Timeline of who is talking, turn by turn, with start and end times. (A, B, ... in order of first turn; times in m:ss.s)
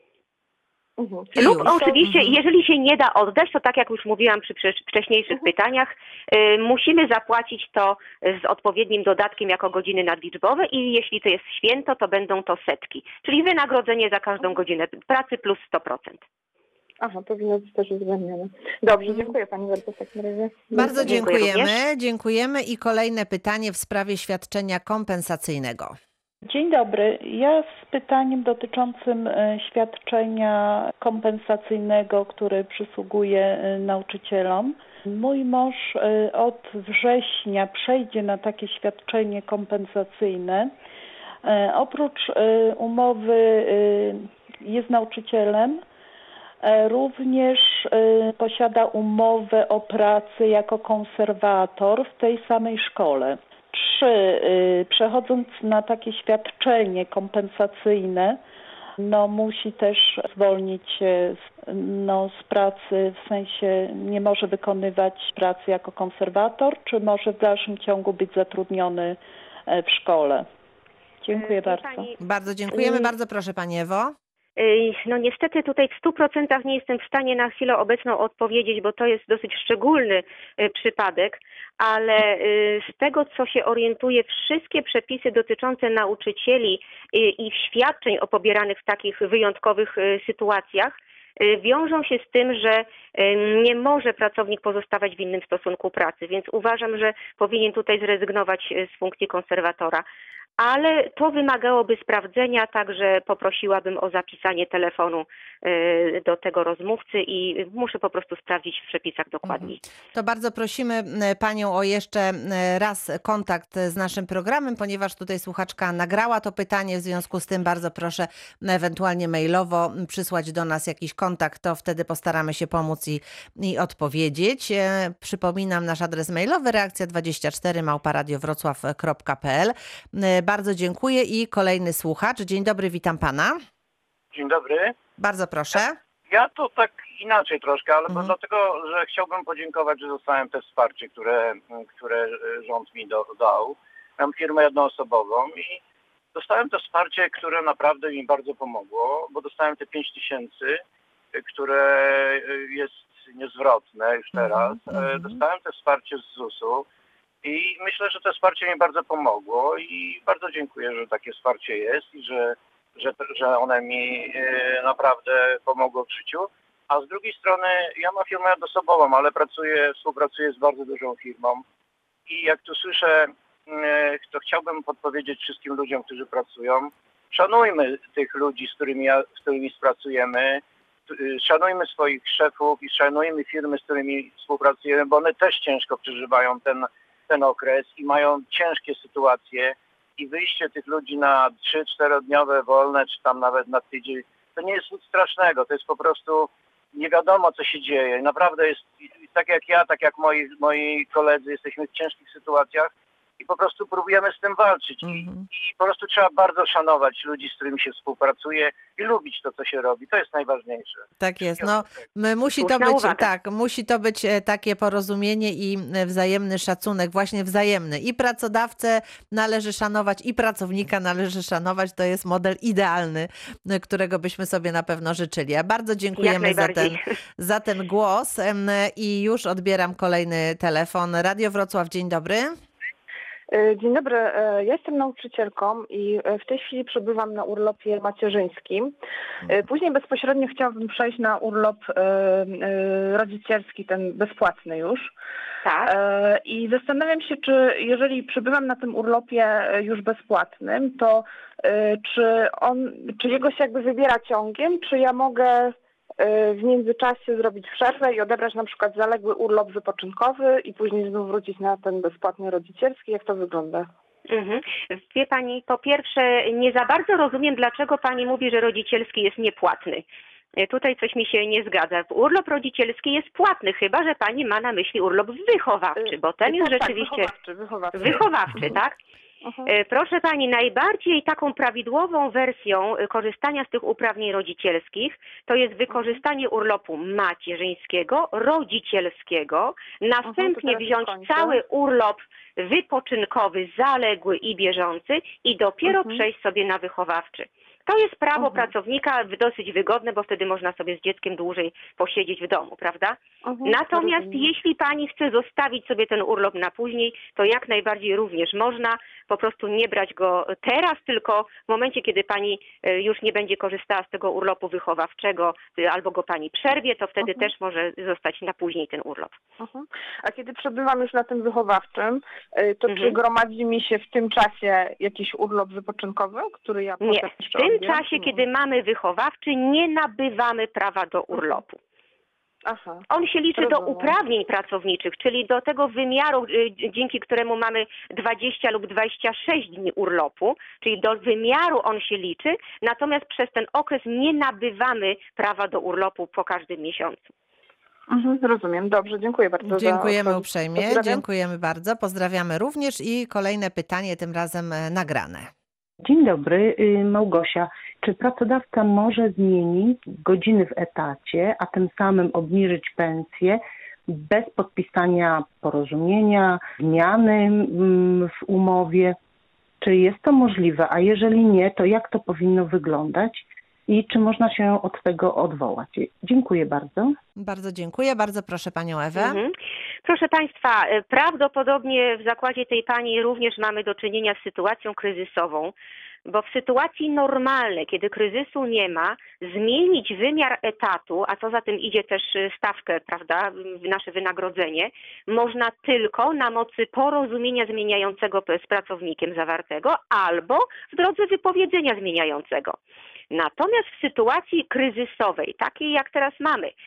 0:01.0-0:02.0 A
0:01.3-0:16.2 B
0:01.4-0:02.4 C
0:17.0-0:21.2 A
0:20.8-0:26.0 C
0:21.0-0:21.7 B
0:26.4-0:40.7 D
0:41.4-0:45.8 D
0:46.6-0:58.4 D
0:59.0-1:10.5 D
1:11.2-1:12.1 D
1:11.3-1:12.2 B
1:12.2-1:14.1 C
1:12.8-1:13.0 B
1:14.6-1:40.0 B
1:40.6-1:49.8 B
1:49.5-2:13.6 C
2:14.3-2:14.9 E
2:15.2-2:16.0 C
2:16.3-2:25.8 E
2:18.1-2:18.3 C
2:26.3-2:30.8 E
2:31.3-2:36.8 E
2:34.3-2:35.4 C
2:37.4-2:51.6 E
2:52.3-3:31.8 E
3:25.0-3:25.5 C
3:31.2-3:52.5 C
3:32.6-3:33.3 B
3:46.2-3:47.0 B
3:53.5-3:58.9 A
3:59.4-4:05.1 A
4:05.6-4:05.9 B
4:05.8-4:23.9 A
4:24.3-4:30.0 B
4:30.6-4:37.3 B
4:36.0-4:38.3 A
4:37.9-4:39.0 B
4:39.4-4:39.7 A
4:39.6-5:19.4 B
4:45.9-4:46.2 A
4:50.2-4:51.6 A
4:55.8-4:56.2 A
4:58.4-4:58.7 A
5:03.4-5:04.5 A
5:17.2-5:17.5 A
5:19.6-5:28.4 A
5:22.9-5:23.2 B
5:27.0-5:31.8 B
5:31.3-5:31.6 A
5:32.7-5:33.0 A
5:33.1-5:47.3 B
5:33.6-5:34.1 A
5:48.1-5:51.2 A
5:49.6-5:55.5 C
5:56.0-6:09.2 F
6:09.8-6:17.1 F
6:17.4-6:19.4 C
6:19.1-6:19.5 B
6:20.0-6:25.7 B
6:26.2-6:42.8 B
6:43.3-6:46.7 B